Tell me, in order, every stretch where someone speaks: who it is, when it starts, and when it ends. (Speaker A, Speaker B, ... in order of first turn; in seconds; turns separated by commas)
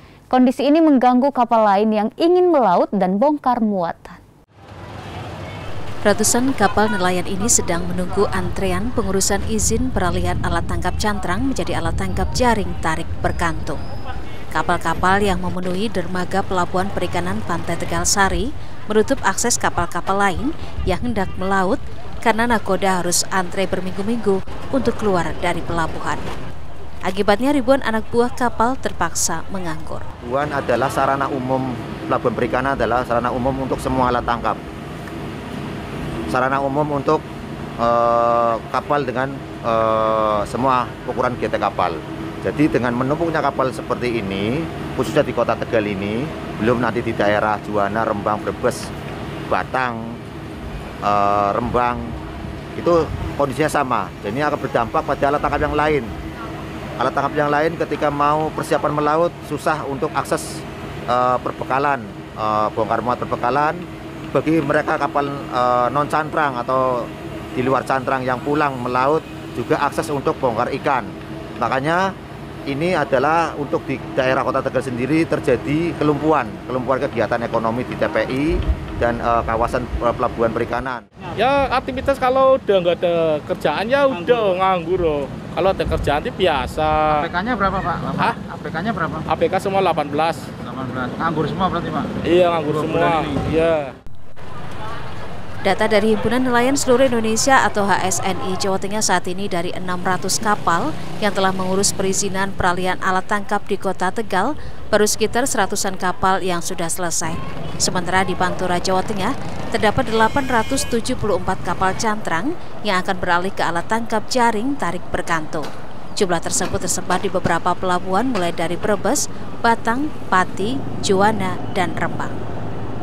Speaker A: 0.3-4.2, Speaker B: 6.0-13.8, Speaker B: 14.5-26.2, Speaker B: 27.1-30.0, Speaker C: 30.2-34.6, Speaker C: 36.3-37.2, Speaker C: 37.8-48.9, Speaker C: 49.5-50.2, Speaker C: 51.0-52.1, Speaker C: 52.8-56.1, Speaker C: 57.0-72.1, Speaker C: 72.7-81.0, Speaker D: 81.4-87.3, Speaker E: 84.1-84.5, Speaker E: 87.1-89.2, Speaker D: 89.3-90.5, Speaker E: 90.5-93.4, Speaker D: 92.2-93.9, Speaker B: 95.6-122.3